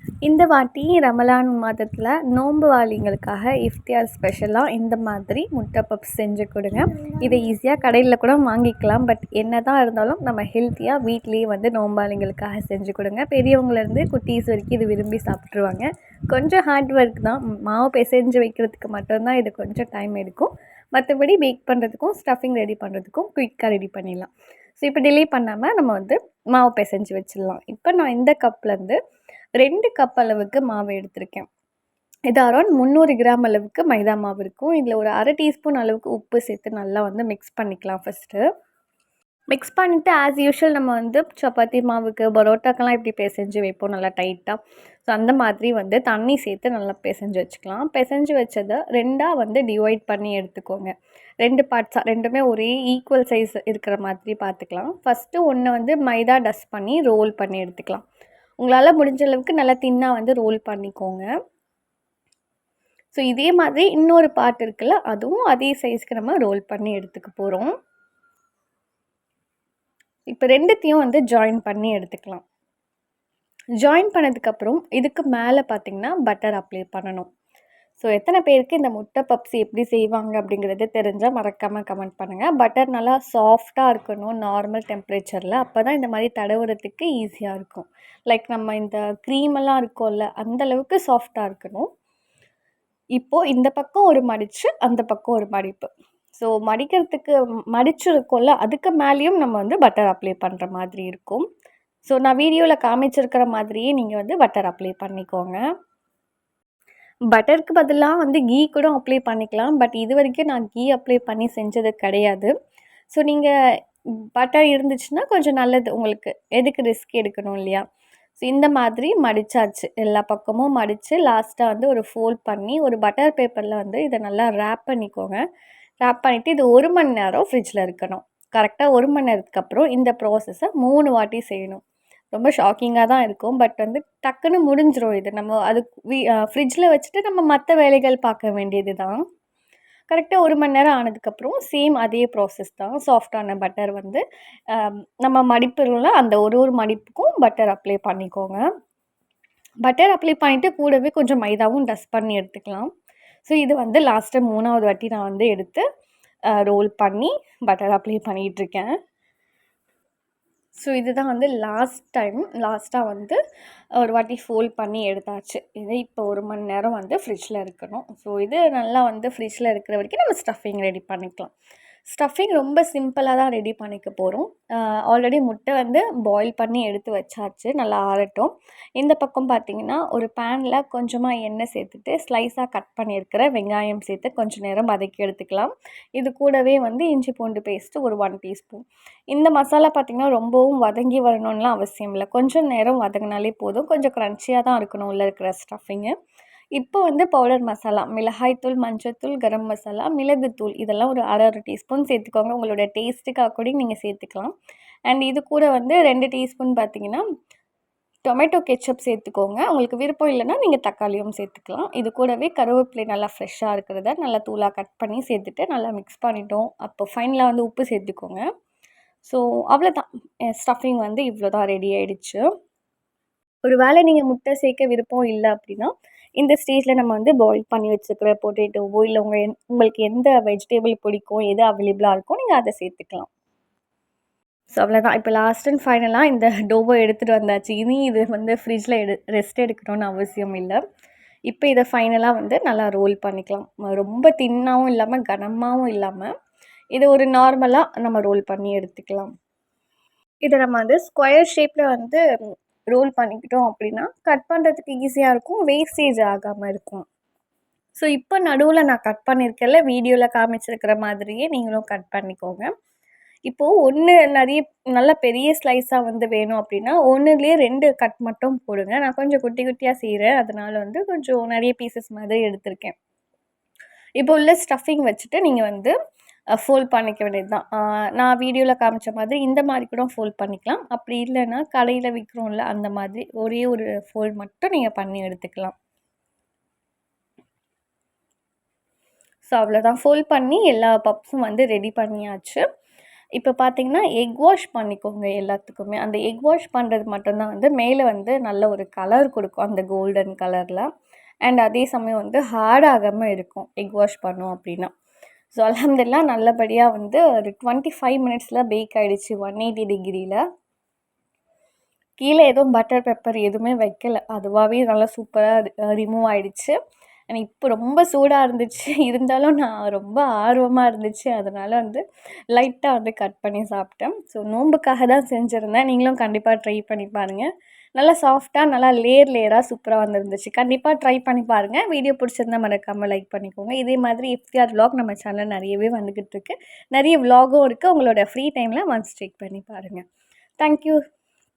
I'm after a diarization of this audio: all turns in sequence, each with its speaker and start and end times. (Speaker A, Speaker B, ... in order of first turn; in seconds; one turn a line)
Speaker A: 0.2-29.0
Speaker A: 29.6-31.5
Speaker A: 32.3-38.4
Speaker A: 39.5-50.9
Speaker A: 51.4-58.0
Speaker A: 58.6-61.3
Speaker A: 63.1-67.7
Speaker A: 70.3-72.4
Speaker A: 73.8-77.3
Speaker A: 78.0-91.9
Speaker A: 93.2-101.4
Speaker A: 102.1-105.6
Speaker A: 107.3-112.5
Speaker A: 113.1-113.5
Speaker A: 114.3-117.8
Speaker A: 118.4-125.4
Speaker A: 126.0-131.8
Speaker A: 132.3-139.2
Speaker A: 140.1-148.6
Speaker A: 149.8-152.9
Speaker A: 153.4-155.8
Speaker A: 156.5-158.9
Speaker A: 160.8-163.4
Speaker A: 164.0-171.5
Speaker A: 172.1-196.1
Speaker A: 196.8-204.5
Speaker A: 205.1-207.2
Speaker A: 208.2-218.4
Speaker A: 219.2-222.4
Speaker A: 223.6-233.3
Speaker A: 234.7-240.8
Speaker A: 241.5-246.3
Speaker A: 246.9-249.3
Speaker A: 250.4-252.2
Speaker A: 252.9-257.0
Speaker A: 258.0-262.7
Speaker A: 263.5-272.9
Speaker A: 274.2-275.9
Speaker A: 276.6-285.7
Speaker A: 289.5-292.6
Speaker A: 293.4-300.9
Speaker A: 301.4-304.9
Speaker A: 305.5-310.4
Speaker A: 312.2-316.8
Speaker A: 317.3-322.0
Speaker A: 322.5-340.0
Speaker A: 340.6-341.0